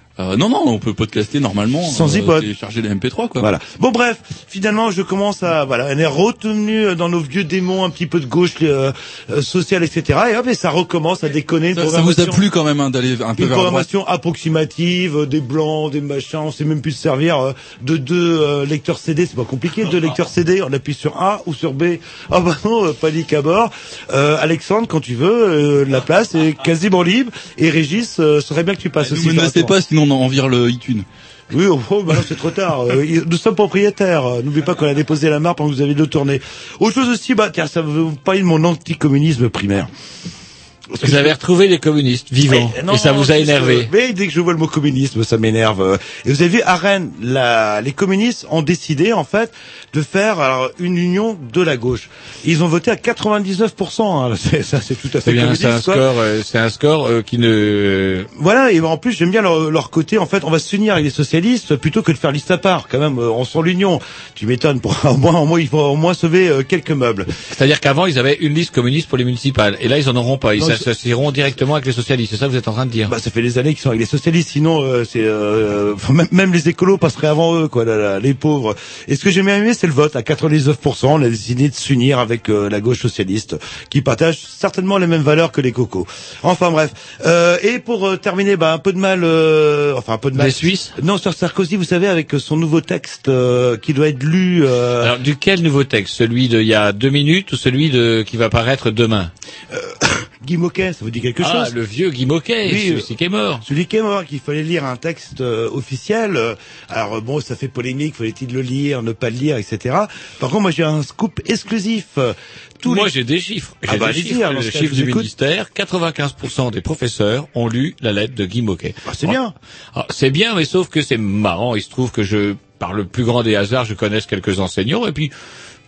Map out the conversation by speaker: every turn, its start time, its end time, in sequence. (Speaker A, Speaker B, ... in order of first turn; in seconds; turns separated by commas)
Speaker A: 0.2-3.5, Speaker B: 1.8-2.5, Speaker B: 3.4-12.5, Speaker A: 11.7-13.9, Speaker B: 13.4-29.8, Speaker A: 29.0-31.1, Speaker B: 31.5-39.9, Speaker B: 40.9-41.4, Speaker C: 41.0-43.9, Speaker B: 42.5-56.0, Speaker C: 55.2-58.3, Speaker B: 58.4-67.3, Speaker C: 67.5-73.1, Speaker B: 70.6-70.9, Speaker B: 73.1-95.1, Speaker C: 90.4-90.9, Speaker C: 95.0-99.3, Speaker B: 99.7-101.8, Speaker C: 101.4-103.7, Speaker B: 102.6-103.1, Speaker B: 103.6-113.1, Speaker C: 112.8-119.4, Speaker B: 113.9-115.3, Speaker B: 119.0-119.5, Speaker C: 119.9-125.3